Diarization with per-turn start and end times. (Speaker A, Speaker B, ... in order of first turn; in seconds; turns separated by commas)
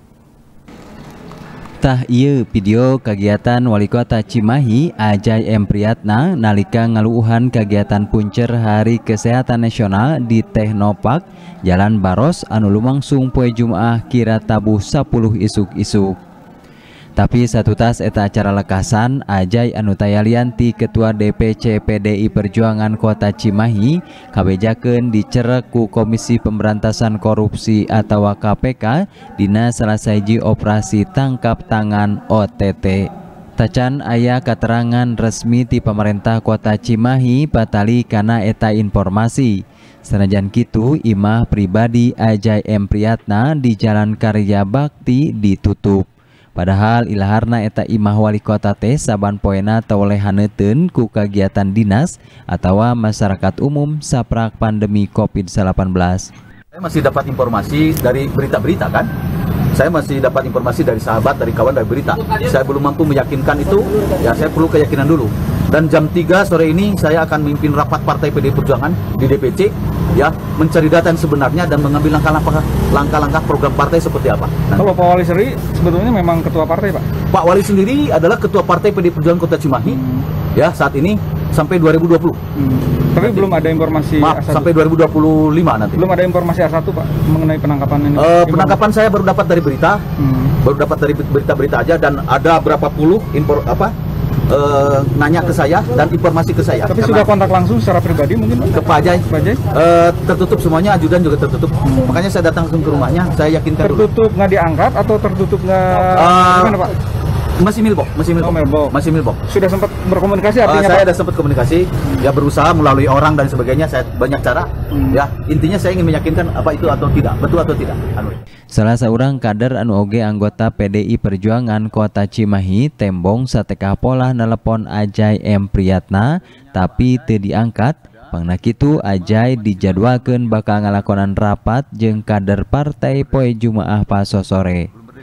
Speaker A: 1.8-16.2, Speaker A: 17.2-39.5, Speaker A: 40.1-46.0, Speaker A: 46.6-56.3, Speaker B: 56.8-59.1, Speaker B: 59.7-74.9, Speaker C: 74.8-77.0, Speaker B: 77.3-80.0, Speaker C: 79.8-80.3, Speaker B: 80.5-82.4, Speaker C: 82.6-84.8, Speaker B: 83.2-83.5, Speaker B: 84.2-86.0, Speaker C: 86.0-88.8, Speaker B: 88.2-90.0, Speaker C: 90.2-90.5, Speaker B: 90.6-93.9, Speaker B: 94.5-97.3, Speaker C: 96.9-99.6, Speaker B: 98.7-104.1, Speaker C: 101.8-102.2, Speaker C: 103.8-106.9, Speaker B: 106.2-106.8, Speaker B: 107.6-109.4, Speaker C: 108.4-109.0, Speaker C: 109.5-111.1, Speaker B: 110.6-118.4, Speaker C: 114.9-115.2, Speaker A: 118.7-134.9